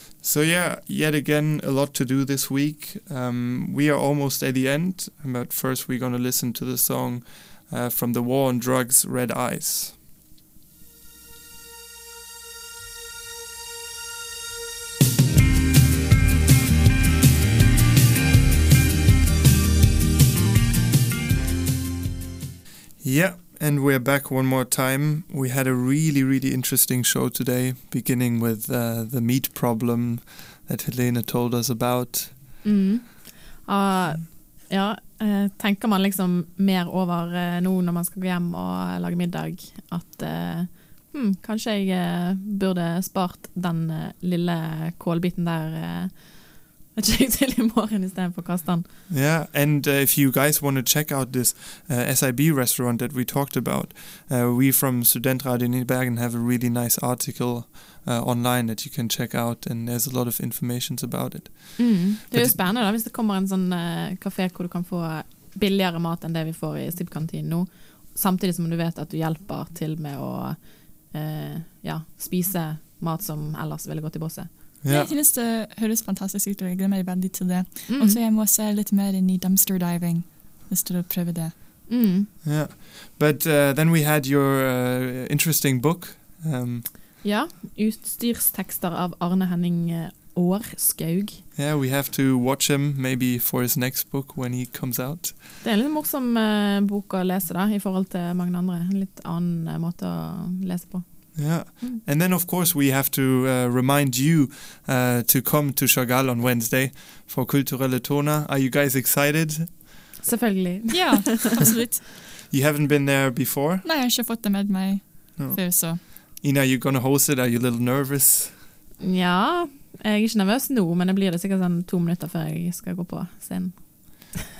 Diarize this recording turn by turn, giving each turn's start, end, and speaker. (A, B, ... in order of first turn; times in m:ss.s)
0:00.2-0:10.0 A
0:23.0-0:32.6 A
0:32.6-0:48.9 B
0:49.1-1:02.6 A
1:01.8-1:14.5 B
1:14.8-1:15.1 A
1:14.9-1:21.6 C
1:17.9-1:18.2 B
1:21.9-1:22.3 B
1:22.4-1:26.9 A
1:27.2-1:31.4 B
1:31.5-1:35.5 A
1:35.6-1:42.0 B
1:41.3-1:49.9 A
1:50.2-1:51.4 B
1:50.9-1:52.0 C
1:52.5-1:53.8 A
1:53.8-1:56.0 C
1:55.4-1:58.6 A
1:59.0-2:04.4 B